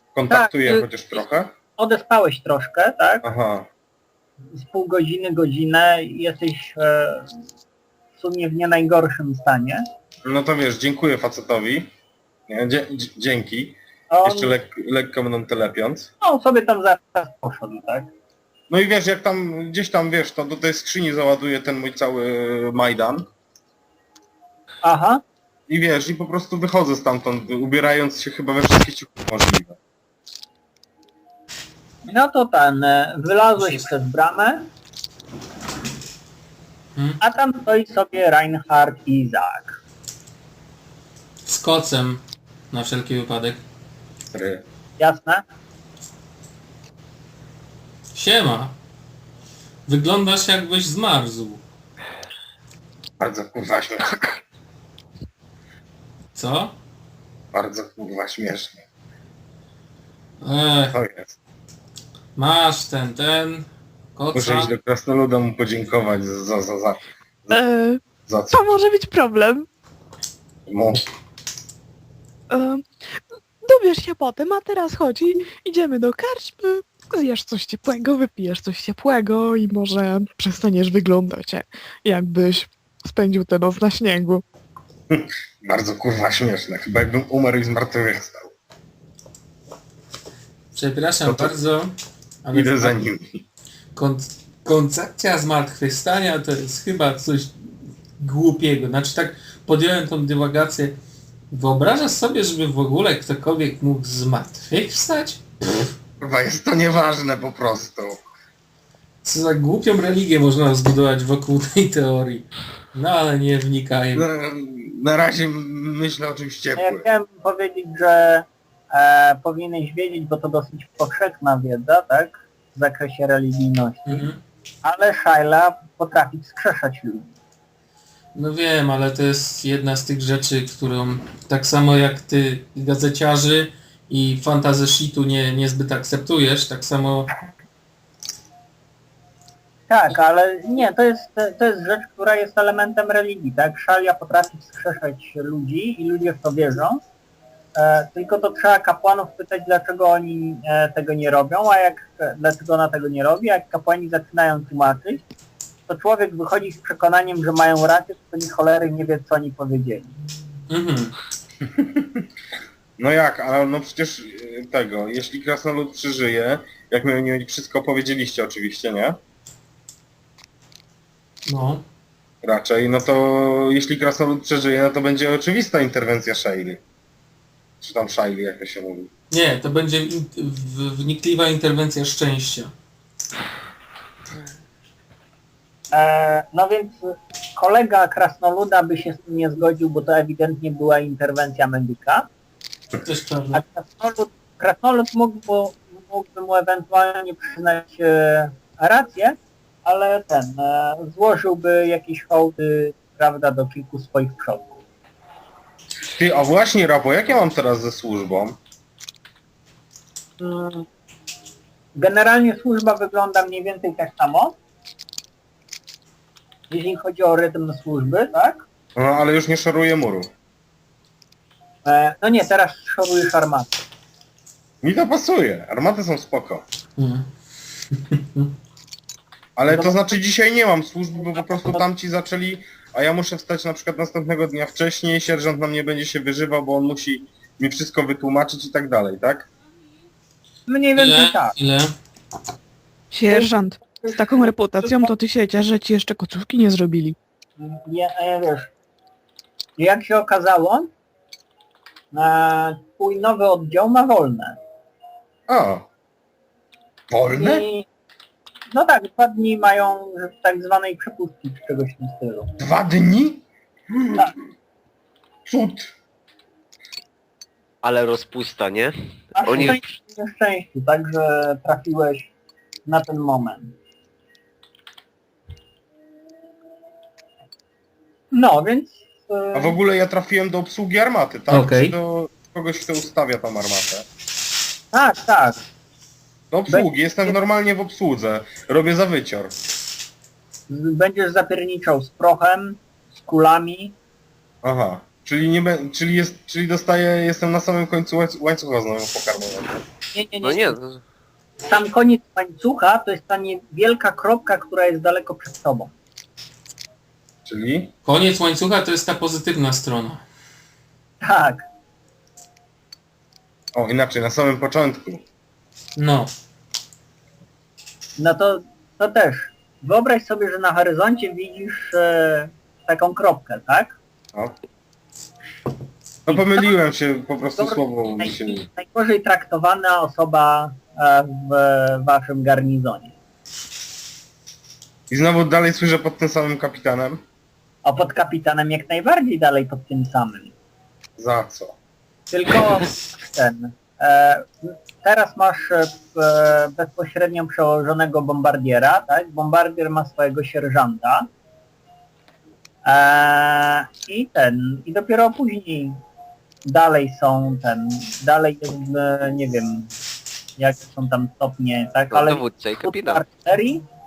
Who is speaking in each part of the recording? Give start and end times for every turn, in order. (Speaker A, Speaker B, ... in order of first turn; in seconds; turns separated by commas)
Speaker A: 0.1-1.5, Speaker B: 0.3-1.2, Speaker B: 1.8-3.2, Speaker A: 3.2-3.7, Speaker B: 4.5-7.3, Speaker B: 8.2-9.8, Speaker A: 10.2-11.9, Speaker A: 12.5-16.1, Speaker B: 14.1-14.5, Speaker B: 16.2-18.1, Speaker A: 18.7-23.2, Speaker B: 24.8-25.2, Speaker A: 25.7-29.8, Speaker B: 32.1-34.6, Speaker C: 33.6-33.9, Speaker B: 37.2-39.8, Speaker C: 41.5-43.6, Speaker A: 44.3-44.6, Speaker B: 45.0-45.4, Speaker C: 48.1-48.8, Speaker C: 49.9-51.6, Speaker A: 53.2-54.4, Speaker C: 56.3-56.7, Speaker A: 57.5-58.8, Speaker C: 60.4-61.0, Speaker A: 60.9-61.4, Speaker C: 62.4-64.7, Speaker A: 64.3-67.6, Speaker D: 67.5-69.7, Speaker A: 68.3-68.6, Speaker A: 70.7-71.0, Speaker D: 72.5-72.8, Speaker D: 73.6-84.4, Speaker A: 85.1-88.5, Speaker C: 90.7-91.9, Speaker A: 91.2-91.5, Speaker C: 92.4-93.0, Speaker A: 92.5-93.4, Speaker C: 93.9-100.9, Speaker C: 101.5-105.4, Speaker A: 106.2-108.2, Speaker C: 109.2-114.2, Speaker A: 114.2-117.0, Speaker B: 116.8-124.3, Speaker C: 124.0-124.4, Speaker B: 124.8-127.3, Speaker C: 128.3-137.3, Speaker B: 139.9-147.0, Speaker B: 147.8-155.2, Speaker B: 155.9-160.1, Speaker C: 160.7-161.1, Speaker A: 161.8-162.2, Speaker A: 163.0-169.2, Speaker C: 171.4-171.8, Speaker A: 172.4-176.8, Speaker A: 177.8-179.1, Speaker C: 179.3-182.7, Speaker B: 185.9-187.0, Speaker B: 187.6-192.3, Speaker C: 193.0-193.6, Speaker B: 193.5-204.8, Speaker A: 206.2-208.6, Speaker B: 210.4-210.8, Speaker B: 211.9-214.6, Speaker B: 216.7-218.6, Speaker A: 218.9-220.3, Speaker B: 221.8-223.8, Speaker A: 224.8-226.6, Speaker C: 227.0-227.3, Speaker C: 227.9-228.5, Speaker A: 229.6-239.5, Speaker B: 229.7-230.2, Speaker B: 240.7-241.5, Speaker C: 240.9-241.9, Speaker D: 243.1-247.2, Speaker B: 243.3-245.1, Speaker B: 247.6-248.7, Speaker B: 249.8-250.9, Speaker B: 252.1-254.6, Speaker A: 255.5-255.8, Speaker A: 257.1-257.6, Speaker B: 257.4-257.9, Speaker B: 258.7-262.5, Speaker A: 262.6-264.2, Speaker A: 265.5-265.9, Speaker E: 267.8-269.8, Speaker B: 269.4-272.3, Speaker B: 272.8-273.7, Speaker B: 278.3-279.8, Speaker A: 279.5-284.0, Speaker C: 281.5-281.9, Speaker B: 284.9-285.6, Speaker A: 286.5-289.5, Speaker B: 286.7-287.4, Speaker B: 290.7-293.9, Speaker A: 294.6-299.7, Speaker B: 300.1-300.8, Speaker E: 300.4-301.0, Speaker B: 301.6-305.9, Speaker A: 307.4-307.9, Speaker C: 308.0-310.2, Speaker B: 311.2-311.6, Speaker A: 313.8-315.2, Speaker C: 315.9-316.3, Speaker B: 318.2-324.0, Speaker A: 326.2-328.6, Speaker B: 327.6-333.1, Speaker A: 335.1-337.2, Speaker B: 337.8-340.5, Speaker A: 341.2-341.8, Speaker B: 342.3-351.3, Speaker B: 352.9-356.0, Speaker B: 356.6-359.9, Speaker B: 360.6-363.8, Speaker E: 362.1-363.2